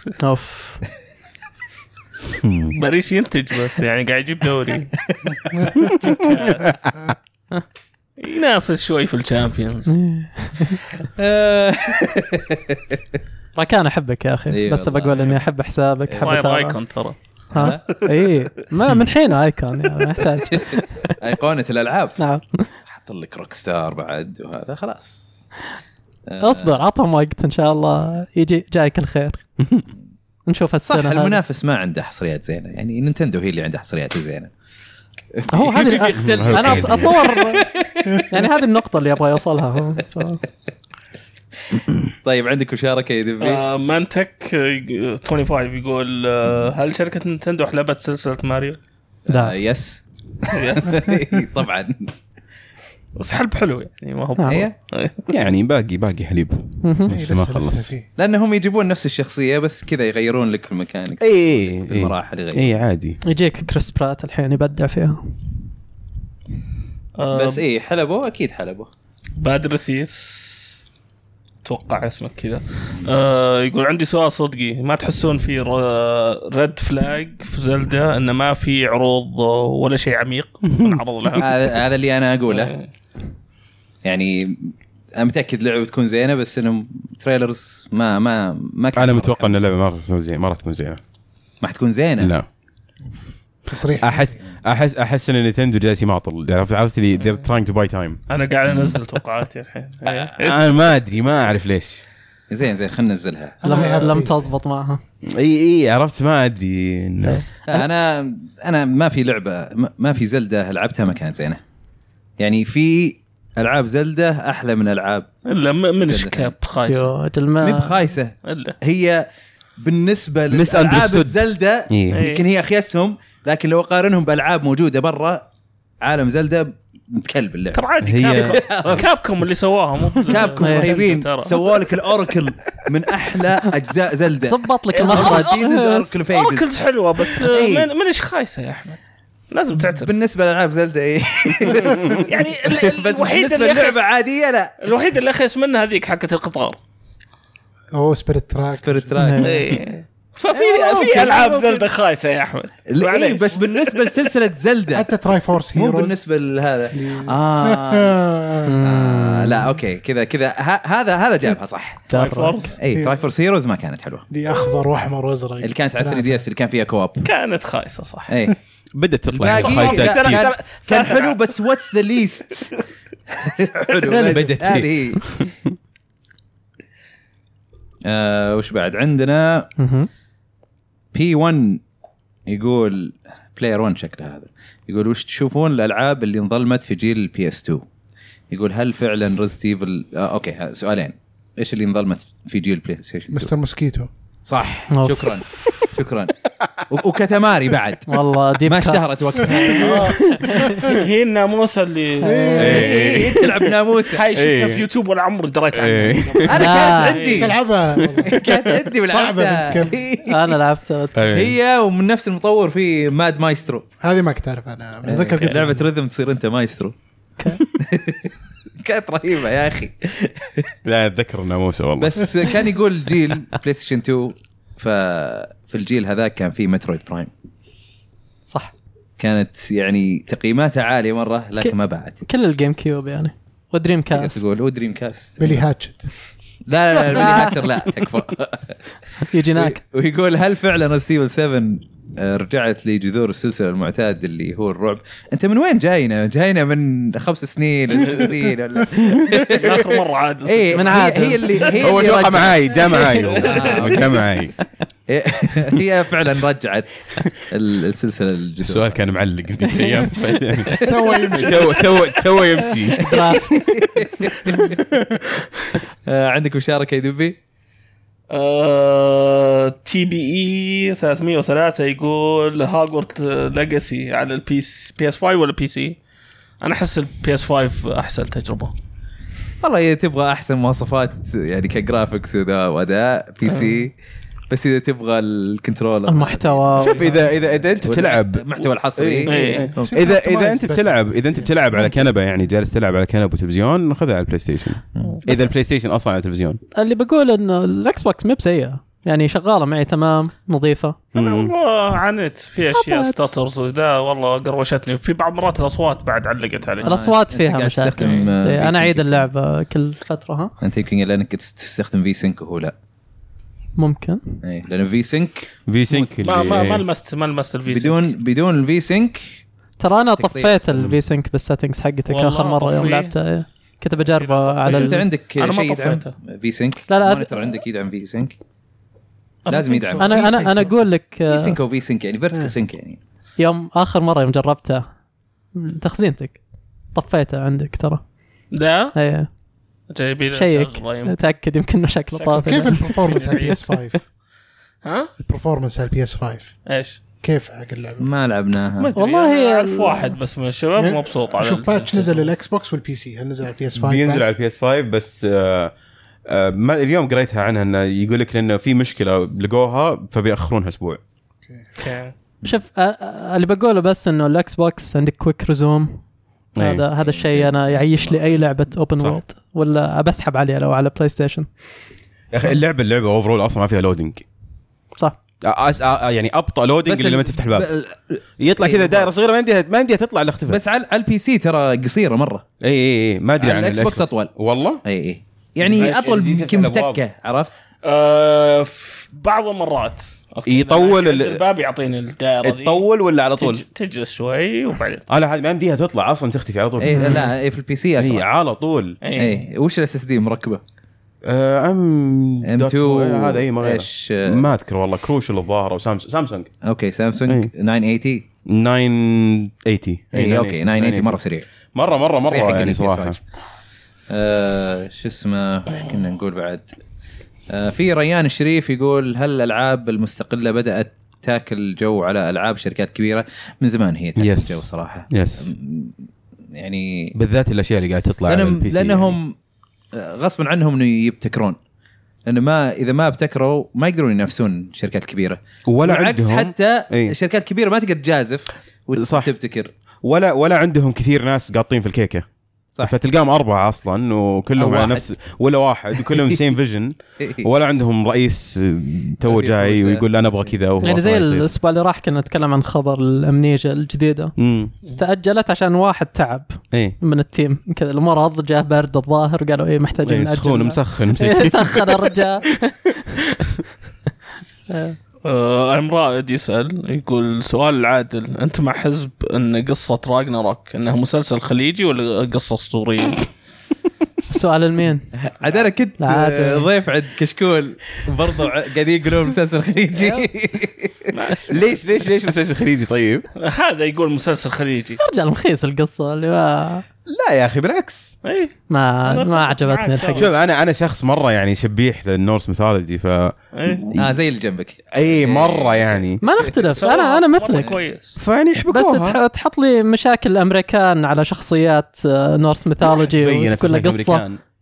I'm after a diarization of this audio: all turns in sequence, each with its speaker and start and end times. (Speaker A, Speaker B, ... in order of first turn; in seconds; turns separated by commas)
Speaker A: 0.2-0.8, Speaker B: 2.4-2.8, Speaker C: 2.7-4.9, Speaker C: 5.9-6.8, Speaker C: 8.2-10.0, Speaker A: 9.9-10.8, Speaker D: 11.0-13.0, Speaker A: 13.6-16.8, Speaker D: 14.5-15.4, Speaker D: 16.1-16.3, Speaker C: 16.2-17.1, Speaker A: 17.5-21.2, Speaker D: 17.5-17.8, Speaker C: 17.9-18.3, Speaker D: 21.2-22.2, Speaker A: 22.2-22.7, Speaker D: 22.9-25.4, Speaker D: 26.3-26.8, Speaker A: 26.4-29.4, Speaker A: 30.5-31.4, Speaker D: 30.9-34.5, Speaker D: 35.3-38.5, Speaker A: 35.5-40.4, Speaker B: 36.2-37.1, Speaker D: 42.2-43.6, Speaker C: 43.4-48.8, Speaker D: 49.3-52.1, Speaker A: 49.3-49.5, Speaker C: 50.5-51.1, Speaker C: 53.1-55.3, Speaker A: 54.4-54.7, Speaker D: 54.5-54.7, Speaker B: 55.3-57.9, Speaker A: 56.8-57.1, Speaker E: 57.1-58.1, Speaker D: 58.1-62.8, Speaker B: 61.2-63.2, Speaker A: 63.2-65.3, Speaker C: 67.2-67.6, Speaker D: 67.3-68.9, Speaker C: 69.4-70.6, Speaker C: 71.6-81.8, Speaker B: 80.7-81.0, Speaker D: 81.3-82.7, Speaker C: 82.5-82.9, Speaker D: 84.0-89.7, Speaker B: 89.0-91.0, Speaker D: 91.6-92.3, Speaker B: 92.2-92.5, Speaker E: 93.7-94.3, Speaker B: 94.0-98.2, Speaker C: 98.3-100.6, Speaker B: 100.0-102.0, Speaker D: 102.5-103.9, Speaker E: 103.6-104.5, Speaker A: 103.6-105.0, Speaker B: 105.2-107.4, Speaker D: 107.7-111.6, Speaker D: 112.4-115.3, Speaker C: 115.5-117.1, Speaker D: 116.0-116.5, Speaker A: 116.9-117.9, Speaker D: 117.6-119.3, Speaker C: 118.4-118.8, Speaker D: 119.8-125.4, Speaker B: 120.5-122.2, Speaker C: 122.1-122.5, Speaker D: 126.0-129.1, Speaker C: 127.7-131.9, Speaker B: 128.0-128.6, Speaker D: 130.2-136.7, Speaker A: 130.6-130.9, Speaker A: 134.4-136.1, Speaker C: 134.9-135.6, Speaker C: 136.3-140.1, Speaker D: 137.3-137.9, Speaker D: 139.9-144.7, Speaker C: 142.0-144.0, Speaker C: 144.8-146.8, Speaker E: 147.9-149.3, Speaker D: 148.8-149.8, Speaker A: 149.2-149.7, Speaker C: 149.4-154.3, Speaker D: 150.5-151.8, Speaker D: 152.9-155.1, Speaker E: 154.9-156.3, Speaker D: 155.7-158.2, Speaker E: 156.9-158.8, Speaker A: 158.6-159.7, Speaker D: 158.8-162.0, Speaker A: 162.1-162.7, Speaker C: 162.1-162.8, Speaker D: 162.8-164.3, Speaker E: 162.9-163.2, Speaker E: 164.3-166.4, Speaker D: 165.6-167.3, Speaker C: 167.2-168.3, Speaker D: 168.3-168.6, Speaker B: 168.9-170.5, Speaker D: 169.3-172.7, Speaker C: 169.5-171.5, Speaker D: 173.3-175.4, Speaker E: 174.1-174.5, Speaker B: 174.2-175.5, Speaker D: 178.0-179.7, Speaker A: 179.8-180.1, Speaker D: 181.1-181.8, Speaker D: 182.5-187.8, Speaker D: 188.5-193.5, Speaker E: 193.3-194.1, Speaker D: 194.4-196.3, Speaker A: 194.9-195.2, Speaker D: 196.9-200.1, Speaker A: 198.1-201.0, Speaker C: 199.7-203.5, Speaker A: 202.2-202.8, Speaker E: 202.2-203.0, Speaker D: 202.6-204.3, Speaker B: 202.6-203.7, Speaker C: 204.1-207.5, Speaker B: 204.3-204.8, Speaker B: 205.7-206.7, Speaker D: 206.4-207.6, Speaker A: 206.6-207.2, Speaker E: 207.3-208.4, Speaker B: 208.1-208.7, Speaker D: 208.2-210.6, Speaker E: 209.0-210.0, Speaker A: 210.2-211.2, Speaker B: 211.1-211.6, Speaker D: 211.3-213.9, Speaker E: 214.0-215.8, Speaker D: 215.0-216.9, Speaker D: 217.6-220.7, Speaker B: 220.8-222.4, Speaker D: 222.0-227.3, Speaker D: 229.2-232.2, Speaker A: 231.6-234.4, Speaker D: 234.1-235.6, Speaker E: 235.4-236.1, Speaker D: 236.7-238.8, Speaker A: 237.1-237.5, Speaker A: 239.2-239.8, Speaker D: 239.5-249.9, Speaker B: 249.0-249.6, Speaker C: 249.3-251.8, Speaker D: 250.4-254.2, Speaker A: 250.7-252.0, Speaker B: 251.8-254.5, Speaker A: 252.8-253.5, Speaker C: 253.3-253.9, Speaker D: 255.1-259.0, Speaker B: 258.6-263.6, Speaker A: 259.6-260.1, Speaker D: 260.7-261.4, Speaker E: 260.7-261.8, Speaker A: 262.7-264.3, Speaker D: 263.2-264.8, Speaker B: 264.5-265.8, Speaker D: 266.0-267.4, Speaker C: 268.3-276.0, Speaker C: 276.6-278.7, Speaker D: 279.6-283.9, Speaker C: 283.5-283.8, Speaker D: 284.5-290.0, Speaker A: 286.1-287.2, Speaker B: 286.8-296.6, Speaker C: 289.2-289.7, Speaker E: 289.8-291.1, Speaker A: 296.7-301.0, Speaker B: 301.1-301.5, Speaker C: 301.1-307.0, Speaker A: 302.6-303.3, Speaker D: 306.8-309.3, Speaker A: 306.8-310.5, Speaker C: 308.0-308.3, Speaker D: 310.6-312.7, Speaker A: 313.8-314.4, Speaker D: 314.4-315.5, Speaker B: 315.7-316.8, Speaker C: 315.9-318.1, Speaker D: 317.7-319.4, Speaker A: 319.8-325.0, Speaker D: 320.2-320.9, Speaker C: 322.1-323.1, Speaker C: 324.1-326.1, Speaker D: 324.7-328.4, Speaker A: 326.9-327.6, Speaker C: 329.4-330.3, Speaker D: 329.4-330.4, Speaker A: 330.0-331.6, Speaker E: 330.1-330.7, Speaker D: 331.3-333.0, Speaker A: 333.4-334.9, Speaker A: 335.5-336.4, Speaker A: 336.9-338.1, Speaker C: 338.5-338.9, Speaker A: 338.9-339.3, Speaker C: 339.9-341.2, Speaker A: 340.3-343.5, Speaker C: 342.2-343.6, Speaker E: 342.4-344.0, Speaker C: 344.8-345.1, Speaker E: 345.2-346.6, Speaker C: 346.6-347.0, Speaker E: 347.2-348.1, Speaker D: 348.0-348.9, Speaker C: 348.8-352.3, Speaker A: 348.9-350.1, Speaker E: 350.8-354.2, Speaker B: 353.8-355.7, Speaker B: 356.3-361.0, Speaker C: 361.8-362.1, Speaker A: 362.4-366.0, Speaker B: 366.6-366.8, Speaker A: 366.6-371.5, Speaker D: 367.0-368.4, Speaker B: 372.3-374.2, Speaker B: 375.4-377.7, Speaker D: 376.9-379.1, Speaker B: 378.4-380.6, Speaker D: 380.5-382.4, Speaker B: 382.6-384.8, Speaker D: 383.4-384.3, Speaker D: 384.8-387.5, Speaker B: 385.6-387.0, Speaker C: 387.8-392.8, Speaker B: 390.4-391.4, Speaker B: 392.4-393.6, Speaker C: 393.4-395.1, Speaker B: 395.1-397.3, Speaker D: 396.8-398.2, Speaker A: 396.9-397.2, Speaker B: 398.0-399.0, Speaker C: 399.0-399.4, Speaker D: 399.1-400.6, Speaker B: 401.2-406.5, Speaker D: 402.4-404.4, Speaker D: 406.6-408.2, Speaker B: 408.4-411.2, Speaker D: 410.1-411.5, Speaker B: 411.7-413.2, Speaker D: 412.3-413.2, Speaker D: 414.1-416.7, Speaker D: 417.5-427.1, Speaker B: 424.2-425.5, Speaker B: 427.1-429.2, Speaker D: 428.3-429.4, Speaker D: 429.9-431.6, Speaker D: 432.2-439.7, Speaker B: 435.6-437.1, Speaker B: 438.9-439.3, Speaker B: 440.0-442.2, Speaker B: 442.8-451.5, Speaker D: 444.6-445.1, Speaker D: 446.0-446.4, Speaker D: 447.2-447.4, Speaker D: 449.2-450.5, Speaker A: 450.8-454.3, Speaker B: 454.4-454.7, Speaker A: 455.0-463.2, Speaker B: 460.0-462.1, Speaker A: 464.7-465.0, Speaker C: 465.2-473.3, Speaker A: 474.3-475.1, Speaker D: 475.4-481.5, Speaker A: 476.0-476.7, Speaker A: 480.0-480.2, Speaker C: 481.1-481.6, Speaker B: 481.5-483.3, Speaker C: 483.4-485.0, Speaker A: 485.0-486.8, Speaker B: 487.1-488.1, Speaker C: 488.2-488.5, Speaker A: 488.7-490.3, Speaker C: 489.1-490.3, Speaker B: 490.1-494.2, Speaker C: 493.5-493.9, Speaker D: 493.9-496.5, Speaker B: 494.9-496.2, Speaker A: 496.2-497.8, Speaker C: 496.7-498.1, Speaker B: 498.2-499.2, Speaker A: 498.7-504.2, Speaker B: 502.8-504.4